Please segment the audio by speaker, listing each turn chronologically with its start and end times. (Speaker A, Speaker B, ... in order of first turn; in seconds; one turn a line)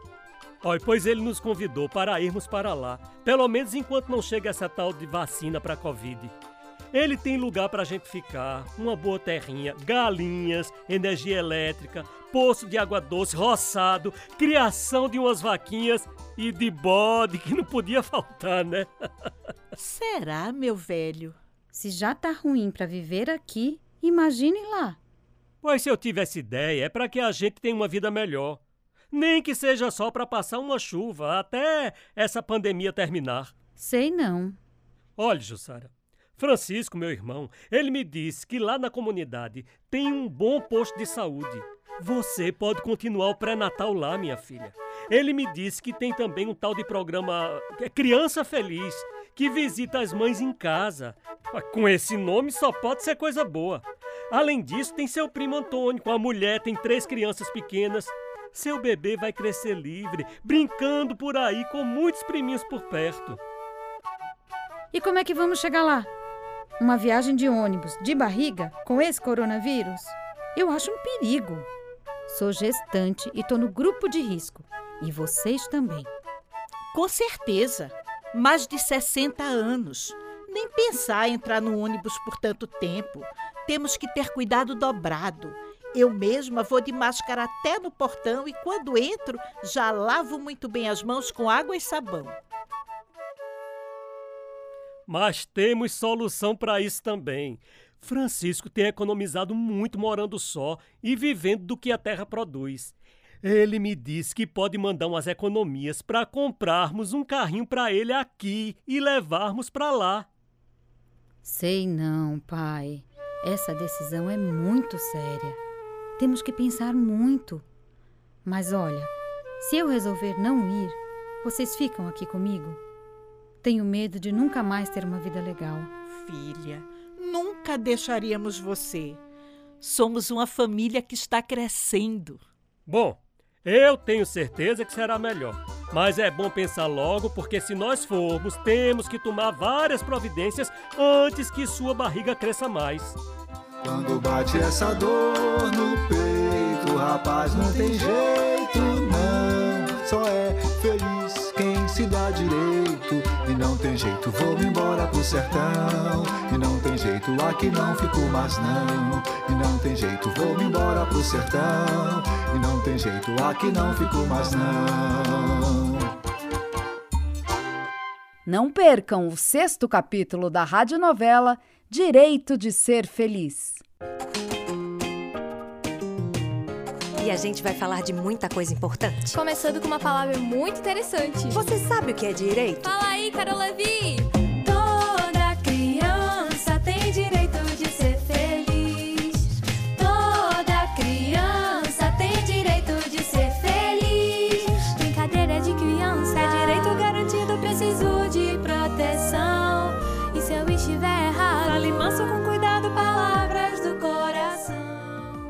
Speaker A: 0.6-6.3
Speaker A: 6.9-19.3
Speaker B: 19.8-21.4
Speaker C: 21.7-25.0
Speaker A: 25.6-28.6
Speaker A: 29.1-33.5
Speaker C: 33.8-34.6
Speaker A: 35.2-63.4
Speaker C: 64.9-66.1
Speaker C: 66.8-71.7
Speaker C: 72.3-76.1
Speaker B: 76.9-92.4
Speaker A: 95.1-110.3
Speaker C: 111.4-115.6
Speaker C: 116.2-117.7
Speaker C: 118.4-122.8
Speaker C: 123.6-125.9
Speaker B: 126.1-129.2
Speaker B: 129.8-132.4
Speaker A: 132.9-143.2
Speaker D: 143.8-166.1
Speaker E: 168.4-173.8
Speaker F: 177.2-179.4
Speaker G: 179.3-181.6
Speaker F: 181.5-182.9
Speaker G: 182.8-205.4